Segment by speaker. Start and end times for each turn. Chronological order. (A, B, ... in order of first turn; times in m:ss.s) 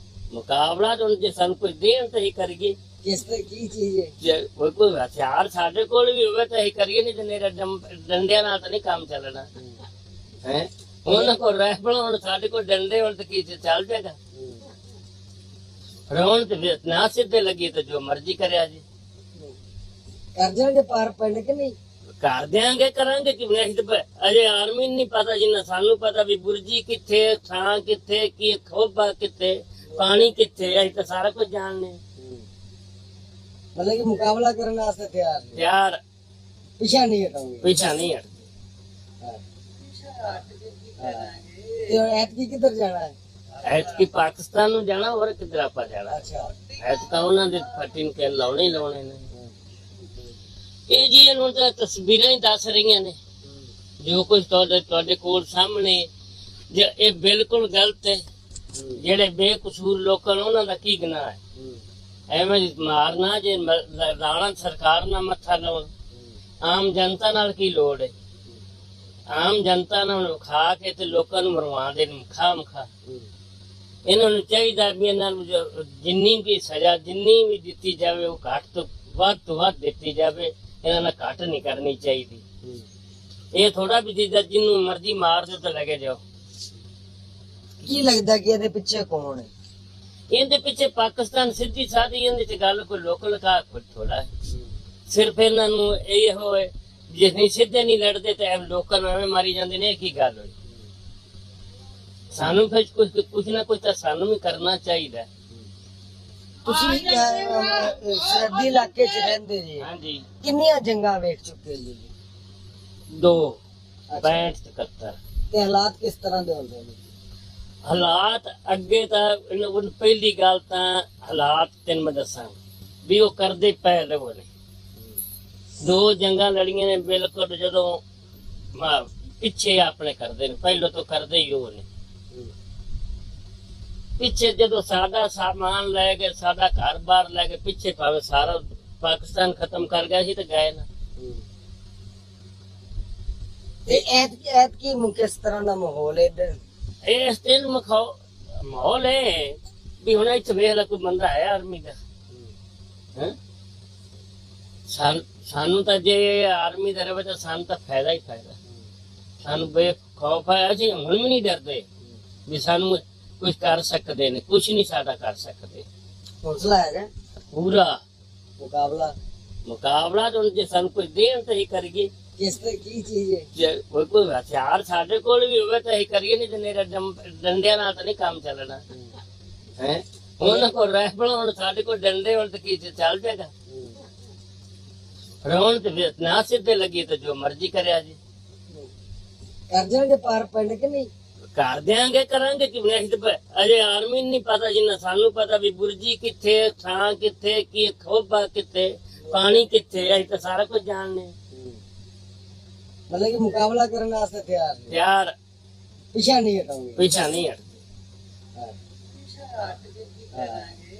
0:00.3-0:02.7 A
0:03.0-0:04.1 B
0:04.2-0:09.4 A
0:10.4-0:14.2 A
0:11.1-0:11.3 B
0:16.1-0:18.8 A
0:20.4-0:21.7 B
0:22.2-0:32.0 A
0:32.2-0:32.4 B
0:33.7-0:35.6 B
0:35.5-0:36.0 A
0:36.8-0:37.7 B
0:37.6-0:38.5 A
0:41.0-0:43.1 B
0:43.6-0:46.2 A
0:46.1-0:46.5 B
0:46.8-0:49.2 A
0:50.9-0:53.2 A
0:54.0-0:56.1 A
0:56.7-0:58.2 A
0:58.9-1:01.4 A
1:02.3-1:05.9 A
1:06.6-1:08.1 A
1:09.3-1:12.9 A
1:14.0-1:22.4 A
1:23.5-1:26.2 A
1:27.8-1:29.5 B
1:30.3-1:34.3 A
1:35.1-1:40.5 A
1:42.3-1:45.3 A
1:46.6-1:49.8 B
1:49.8-1:50.2 A
1:50.4-1:52.1 B
1:53.1-1:53.6 A
1:54.1-1:54.5 B
1:54.2-1:55.2 A
1:55.5-1:57.0 B
1:57.8-2:04.5 A
2:05.8-2:08.0 A
2:08.7-2:11.8 A
2:14.2-2:20.8 A
2:23.8-2:26.6 B
2:27.0-2:32.0 A
2:34.9-2:38.6 A
2:39.4-2:41.8 A
2:42.5-2:45.8 A
2:46.4-2:47.1 B
2:47.5-2:48.0 A
2:48.6-2:49.1 B
2:49.6-2:52.1 A
2:52.4-2:53.5 B
2:53.5-2:58.8 A
2:59.8-3:03.5 A
3:00.4-3:00.7 B
3:05.4-3:08.2 A
3:09.7-3:11.1 B
3:11.5-3:21.3 A
3:21.5-3:21.8 B
3:23.1-3:24.9 B
3:24.9-3:25.3 A
3:26.1-3:27.2 B
3:27.0-3:27.8 A
3:30.3-3:30.7 B